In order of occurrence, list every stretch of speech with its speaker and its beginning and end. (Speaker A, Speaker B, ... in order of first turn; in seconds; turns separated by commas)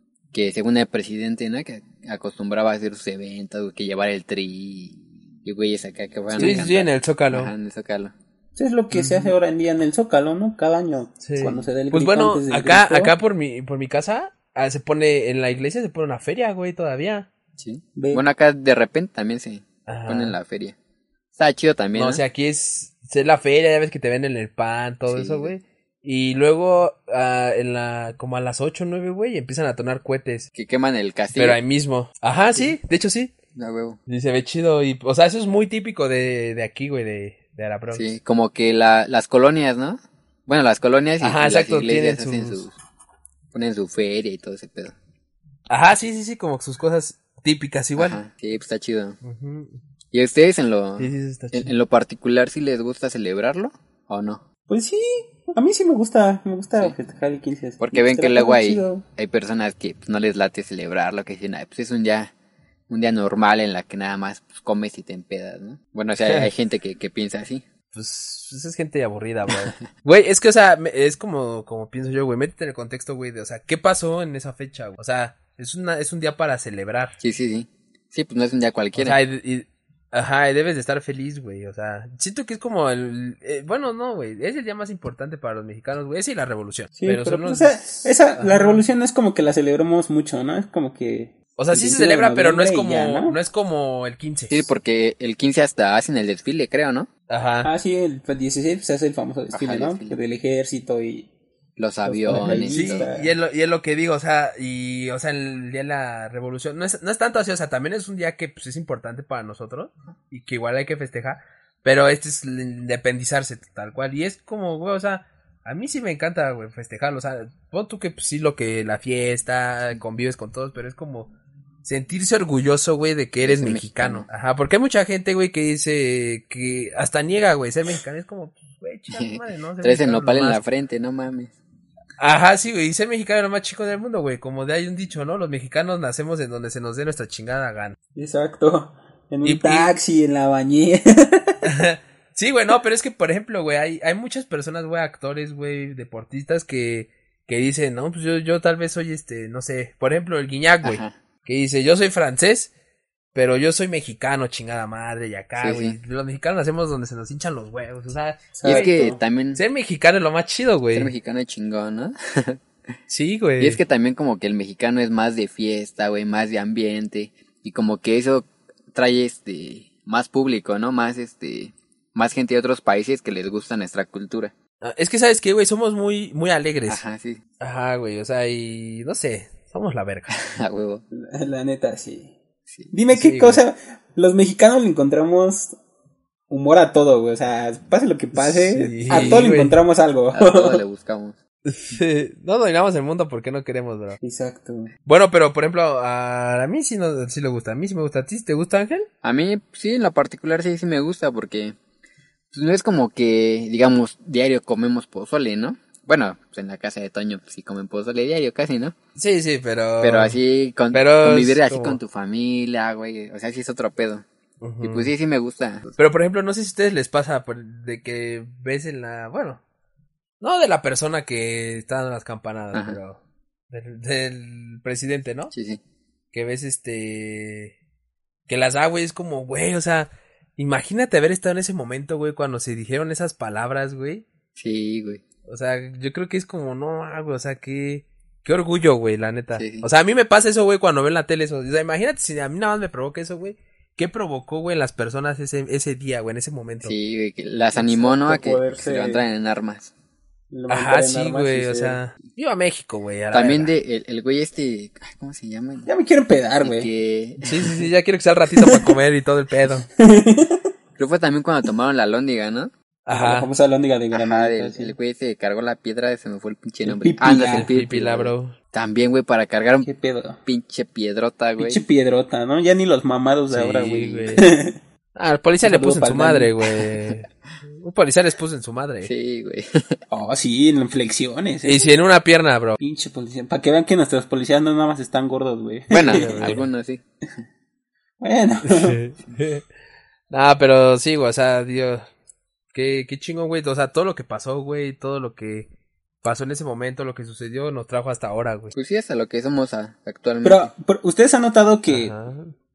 Speaker A: 0.3-8.1, Speaker B: 6.3-6.6, Speaker C: 6.4-7.5, Speaker B: 8.6-13.1, Speaker C: 8.9-9.3, Speaker C: 11.2-17.3, Speaker A: 17.6-20.7, Speaker B: 17.9-18.2, Speaker C: 19.9-20.4, Speaker A: 21.4-22.2, Speaker C: 21.9-30.5, Speaker A: 25.1-25.5, Speaker A: 30.5-31.6, Speaker C: 31.3-33.3, Speaker A: 33.5-34.0, Speaker C: 34.1-38.1, Speaker A: 37.9-42.8, Speaker C: 41.2-42.7, Speaker A: 43.5-44.9, Speaker C: 45.7-48.2, Speaker A: 48.0-49.2, Speaker C: 49.2-49.8, Speaker A: 50.1-54.4, Speaker C: 51.0-51.7, Speaker B: 54.7-59.0, Speaker A: 57.8-62.3, Speaker A: 62.9-67.6, Speaker C: 66.2-66.5, Speaker C: 67.9-77.2, Speaker A: 77.2-79.2, Speaker C: 79.0-88.8, Speaker B: 87.0-93.4, Speaker C: 91.6-94.7, Speaker A: 94.5-97.1, Speaker C: 97.3-97.7, Speaker B: 97.6-101.3, Speaker A: 99.5-100.2, Speaker A: 101.8-103.1, Speaker B: 102.0-103.3, Speaker C: 102.3-121.3, Speaker C: 121.8-130.6, Speaker A: 123.4-124.3, Speaker A: 129.1-131.5, Speaker C: 132.2-138.0, Speaker B: 138.1-141.6, Speaker C: 139.4-139.9, Speaker C: 141.6-152.7, Speaker A: 150.8-151.1, Speaker C: 153.3-158.9, Speaker A: 155.6-156.0, Speaker B: 158.5-159.2, Speaker A: 158.6-159.6, Speaker C: 159.5-161.1, Speaker A: 160.9-162.6, Speaker C: 163.1-163.8, Speaker A: 163.6-174.5, Speaker C: 174.8-177.0, Speaker A: 176.9-177.4, Speaker C: 177.6-180.3, Speaker A: 180.3-181.0, Speaker B: 181.1-182.3, Speaker B: 182.9-185.8, Speaker C: 183.1-183.6, Speaker B: 186.5-190.8, Speaker C: 188.3-189.8, Speaker A: 190.3-191.4, Speaker C: 191.7-194.2, Speaker B: 194.2-194.9, Speaker C: 195.1-199.1, Speaker A: 199.2-201.8, Speaker A: 202.5-208.9, Speaker C: 209.2-210.4, Speaker A: 210.0-214.2, Speaker C: 210.9-212.0, Speaker C: 214.6-215.1, Speaker A: 214.8-216.0, Speaker C: 216.0-219.6, Speaker C: 220.4-223.2, Speaker A: 222.7-223.0, Speaker C: 223.7-225.5, Speaker A: 225.5-225.8, Speaker C: 226.3-227.7, Speaker C: 228.5-234.2, Speaker A: 234.5-235.2, Speaker C: 235.5-246.9, Speaker A: 239.5-239.9, Speaker A: 246.8-249.9, Speaker B: 247.7-249.2, Speaker B: 250.5-252.0, Speaker C: 250.7-253.7, Speaker A: 253.3-255.9, Speaker B: 255.8-256.9, Speaker A: 256.6-257.6, Speaker C: 257.4-259.9, Speaker B: 258.5-258.9, Speaker B: 260.0-260.6, Speaker A: 261.0-262.7, Speaker C: 263.1-263.5, Speaker B: 263.1-264.9, Speaker A: 264.1-269.9, Speaker B: 266.8-267.7, Speaker C: 267.5-268.5, Speaker B: 269.8-270.4, Speaker A: 270.4-271.8, Speaker B: 271.6-274.8, Speaker C: 273.5-274.5, Speaker C: 275.1-279.1, Speaker B: 275.6-276.8, Speaker A: 279.0-280.0, Speaker B: 280.1-281.9, Speaker C: 281.6-282.8, Speaker B: 282.8-286.6, Speaker A: 285.9-287.0, Speaker C: 286.0-286.6, Speaker B: 288.2-289.0, Speaker C: 288.6-289.6, Speaker C: 290.3-292.1, Speaker C: 292.7-295.7, Speaker C: 296.2-298.7, Speaker A: 298.7-300.7, Speaker B: 300.4-302.1, Speaker C: 301.9-302.5